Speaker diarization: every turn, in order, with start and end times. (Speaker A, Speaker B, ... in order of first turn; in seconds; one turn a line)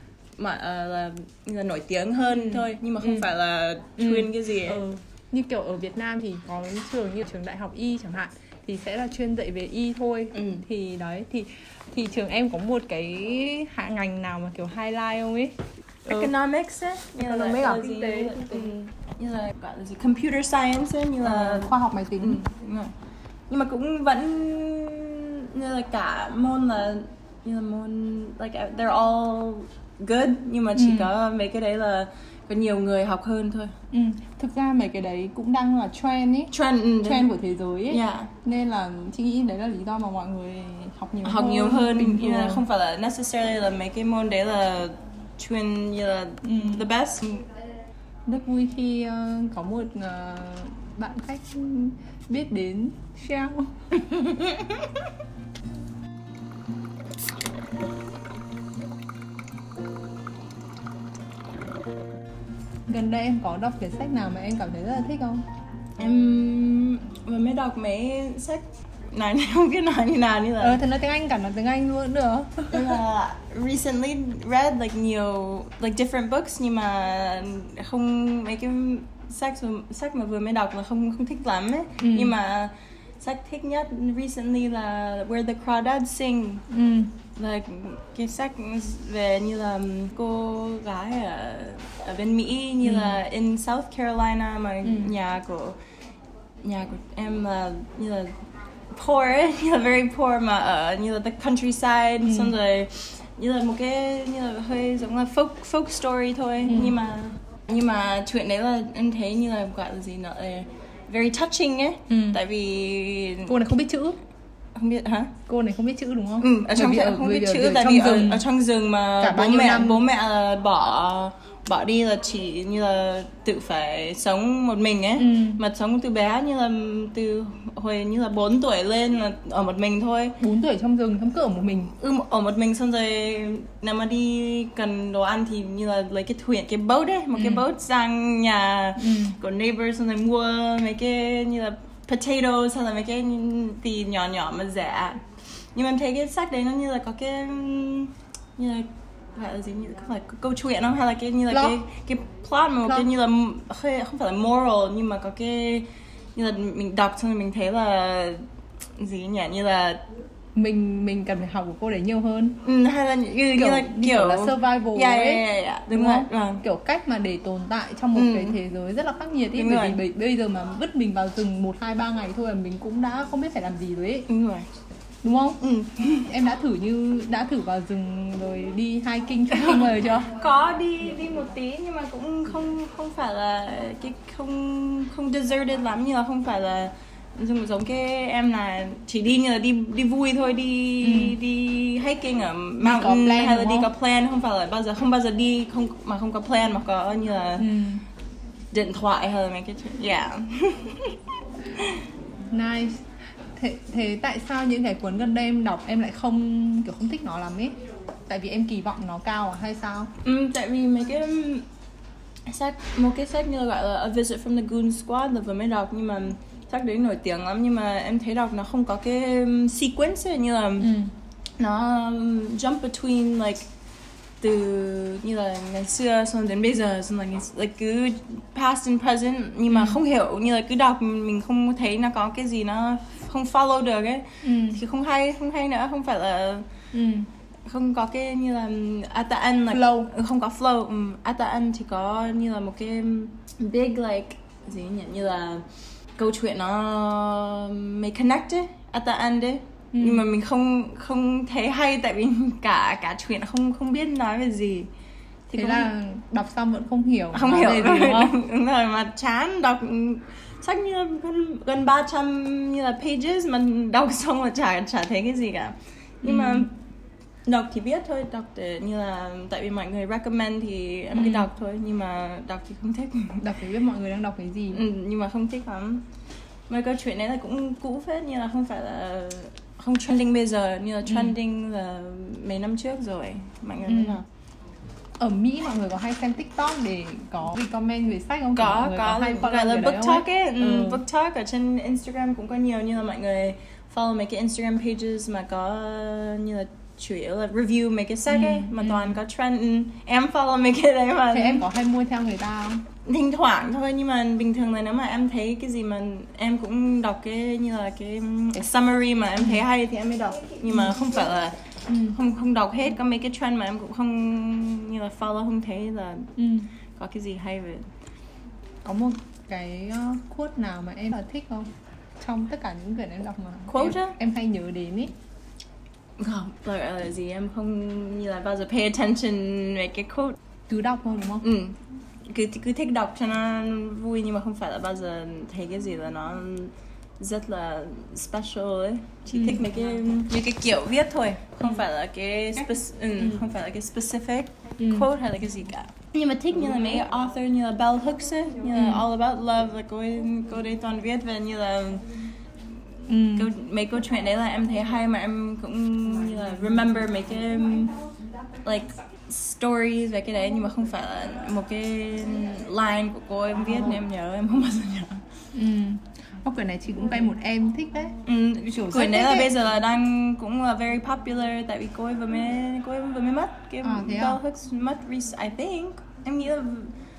Speaker A: 0.4-4.8
Speaker B: 2.3-3.2
Speaker B: 4.0-15.5
Speaker A: 10.3-10.6
Speaker B: 16.1-16.3
Speaker A: 16.1-22.9
Speaker B: 17.2-18.9
Speaker B: 21.2-22.4
Speaker A: 23.5-33.7
Speaker B: 30.7-31.1
Speaker B: 33.9-42.6
Speaker A: 36.5-37.3
Speaker A: 37.9-38.3
Speaker A: 41.2-47.4
Speaker B: 46.4-46.9
Speaker B: 48.3-53.7
Speaker A: 53.9-55.0
Speaker B: 62.9-65.4
Speaker A: 66.0-70.8
Speaker B: 70.6-73.0
Speaker A: 72.7-86.6
Speaker B: 82.0-82.3
Speaker B: 86.7-87.1
Speaker A: 87.3-95.8
Speaker B: 92.8-93.2
Speaker B: 94.8-95.1
Speaker A: 96.6-98.3
Speaker A: 98.9-113.6
Speaker B: 102.2-102.5
Speaker B: 106.7-107.0
Speaker B: 112.1-112.4
Speaker B: 113.5-114.2
Speaker A: 114.7-115.3
Speaker B: 115.5-118.5
Speaker A: 116.4-130.4
Speaker B: 119.2-120.0
Speaker B: 125.2-125.6
Speaker B: 130.4-131.9
Speaker A: 132.0-145.2
Speaker B: 137.3-137.7
Speaker B: 139.0-139.4
Speaker A: 145.7-158.4
Speaker B: 151.5-151.8
Speaker A: 158.9-160.0
Speaker B: 160.5-162.6
Speaker A: 162.6-166.6
Speaker B: 163.5-174.3
Speaker A: 168.1-168.6
Speaker A: 169.5-170.0
Speaker A: 174.3-174.7
Speaker B: 175.2-175.6
Speaker A: 175.6-176.3
Speaker B: 176.2-180.3
Speaker A: 179.6-197.7
Speaker B: 191.0-191.4
Speaker B: 192.8-193.9
Speaker B: 197.6-198.0
Speaker A: 198.7-201.2
Speaker A: 201.7-202.0
Speaker B: 202.5-207.7
Speaker B: 208.3-210.1
Speaker A: 210.2-211.7
Speaker A: 212.4-220.9
Speaker B: 220.8-221.1
Speaker A: 221.6-223.7
Speaker A: 224.4-236.7
Speaker B: 229.7-230.0
Speaker B: 234.4-234.8
Speaker B: 236.9-237.3
Speaker A: 237.7-245.6
Speaker B: 239.7-240.1
Speaker A: 246.2-254.9
Speaker B: 249.9-250.3
Speaker A: 255.5-255.9
Speaker B: 255.5-258.4
Speaker A: 257.3-266.7
Speaker B: 266.2-266.7
Speaker A: 267.4-273.4
Speaker B: 271.1-271.5
Speaker B: 273.4-274.8
Speaker A: 274.7-276.0
Speaker A: 276.7-284.2
Speaker B: 281.1-281.3
Speaker B: 283.8-284.2
Speaker B: 285.2-291.0
Speaker A: 288.5-301.7
Speaker B: 298.3-299.2
Speaker B: 301.3-302.8
Speaker A: 303.0-311.6
Speaker B: 309.4-309.6
Speaker B: 311.9-312.2
Speaker A: 312.1-316.3
Speaker B: 316.4-316.7
Speaker A: 316.9-317.9
Speaker B: 318.8-325.1
Speaker A: 323.7-324.1
Speaker A: 326.2-330.4
Speaker B: 330.7-331.4
Speaker A: 331.4-352.2
Speaker B: 339.3-339.6
Speaker B: 344.8-345.1
Speaker B: 348.7-349.1
Speaker B: 353.1-353.5
Speaker A: 353.2-357.9
Speaker A: 358.6-365.2
Speaker B: 365.5-368.2
Speaker A: 368.2-376.9
Speaker B: 368.7-369.6
Speaker B: 373.8-374.4